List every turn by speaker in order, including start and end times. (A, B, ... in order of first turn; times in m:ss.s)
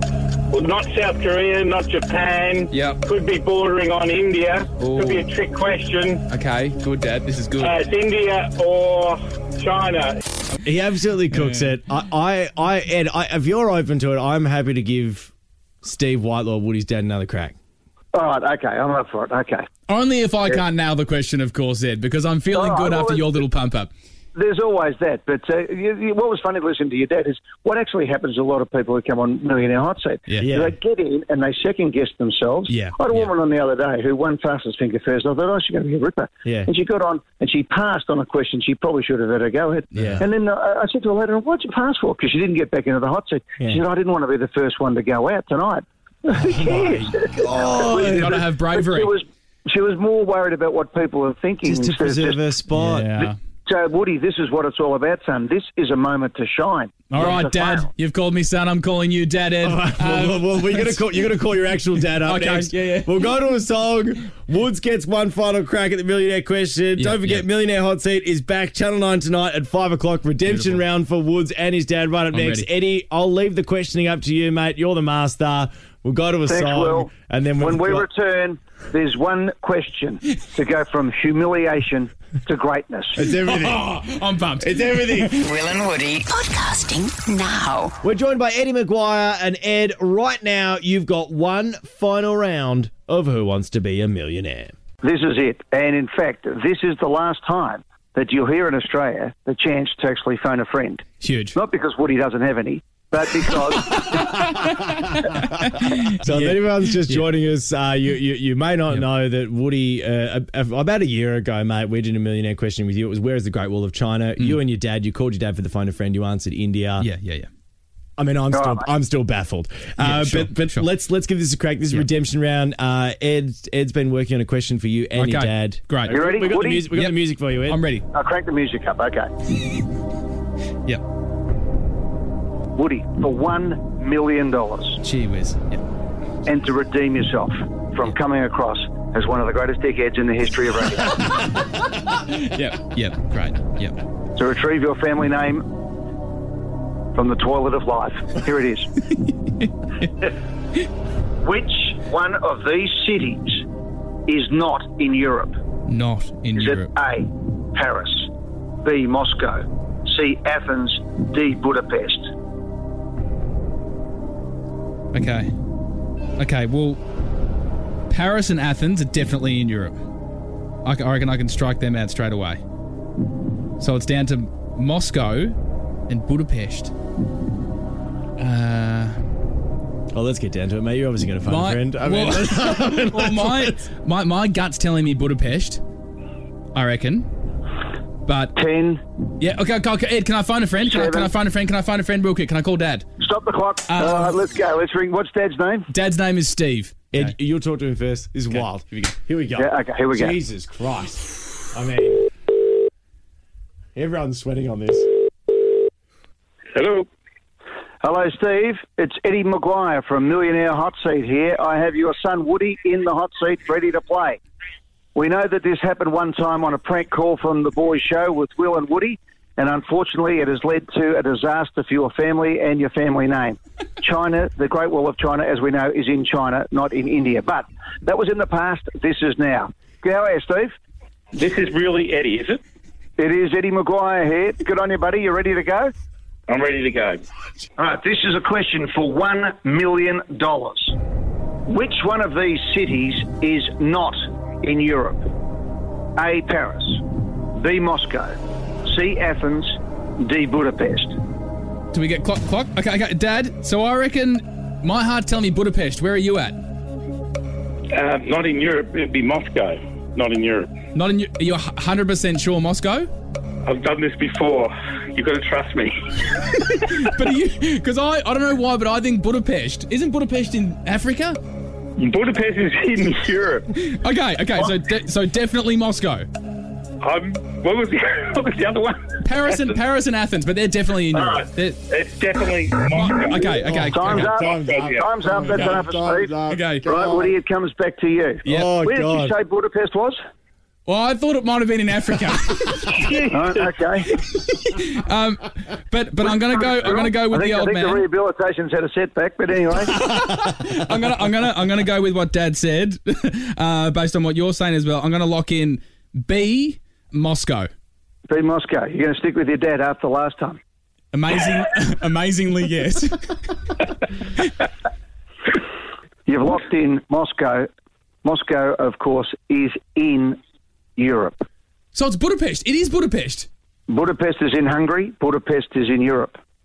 0:00.5-0:06.2 A
0:02.7-0:03.0 B
0:04.8-0:05.3 B
0:06.3-0:07.8 B
0:07.6-0:10.2 A
0:10.6-0:17.5 C
0:11.3-0:11.7 B
0:18.1-0:19.6 D
0:19.9-0:23.9 B
0:22.5-0:23.4 D
0:24.3-0:52.4 D
0:30.4-0:30.7 C
0:36.4-0:36.7 C
0:39.9-0:40.2 B
0:39.9-0:40.2 C
0:46.3-0:48.4 C
0:47.7-0:49.1 B
0:51.6-0:53.1 C
0:52.7-0:53.4 B
0:53.2-0:57.9 D
0:57.1-1:01.0 B
0:59.6-1:18.1 C
1:02.2-1:03.1 B
1:07.0-1:07.4 B
1:10.4-1:10.8 B
1:12.3-1:12.7 B
1:16.5-1:23.2 D
1:23.2-1:24.0 C
1:23.3-1:25.5 B
1:24.6-1:25.4 C
1:25.4-1:27.9 E
1:28.0-1:34.7 C
1:35.0-1:44.2 D
1:41.2-1:41.5 B
1:43.9-1:47.2 B
1:46.1-1:57.1 C
1:57.0-1:57.5 B
1:58.2-2:07.8 C
1:58.5-1:58.8 D
2:00.0-2:00.8 B
2:05.2-2:06.2 B
2:06.1-2:06.9 D
2:07.6-2:08.0 B
2:08.1-2:09.3 D
2:12.7-2:15.0 D
2:15.0-2:15.8 B
2:16.4-2:21.2 D
2:22.1-2:23.9 B
2:24.3-2:25.7 D
2:27.1-2:28.9 D
2:31.4-2:33.6 D
2:34.3-2:35.6 D
2:35.9-2:36.9 B
2:36.6-2:38.3 D
2:38.8-2:42.3 D
2:45.1-2:45.5 B
2:46.4-2:47.0 B
2:48.1-2:50.0 B
2:50.8-2:52.6 B
2:53.8-2:55.6 B
2:56.1-2:56.9 B
2:58.4-2:59.2 B
3:00.1-3:03.8 C
3:01.4-3:05.8 B
3:06.7-3:07.3 B
3:08.2-3:08.5 B
3:08.5-3:09.0 D
3:09.4-3:13.0 B
3:10.8-3:11.3 D
3:13.2-3:15.9 D
3:13.9-3:14.3 B
3:15.9-3:17.3 B
3:17.1-3:22.2 C
3:18.5-3:19.1 B
3:19.6-3:20.4 D
3:24.0-3:25.1 C
3:26.7-3:27.1 A
3:28.0-3:34.4 D
3:35.1-3:50.7 D
3:51.3-3:52.6 A
3:53.2-3:55.9 D
3:56.5-3:57.2 A
3:57.8-4:01.0 D
4:01.7-4:05.3 D
4:06.2-4:07.0 D
4:07.5-4:11.2 D
4:11.9-4:16.6 B
4:17.9-4:20.7 A
4:20.9-4:23.1 B
4:23.6-4:25.9 A
4:26.4-4:31.4 B
4:32.0-4:33.7 A
4:33.8-4:36.3 B
4:37.0-4:39.1 A
4:39.2-4:41.8 B
4:41.9-4:43.4 A
4:42.9-4:44.3 B
4:43.5-4:47.3 C
4:43.9-4:50.2 D
4:44.5-4:44.9 A
4:46.5-4:46.8 B
4:48.4-4:48.7 B
4:48.4-4:49.3 C
4:50.8-4:53.3 B
4:53.0-4:54.1 D
4:54.1-4:58.0 B
4:56.2-4:59.9 D
4:59.9-5:07.7 B
5:08.3-5:10.6 D
5:11.1-5:13.5 B
5:16.2-5:17.7 D
5:18.2-5:20.4 D
5:21.0-5:21.4 D
5:21.9-5:23.5 B
5:23.9-5:26.4 D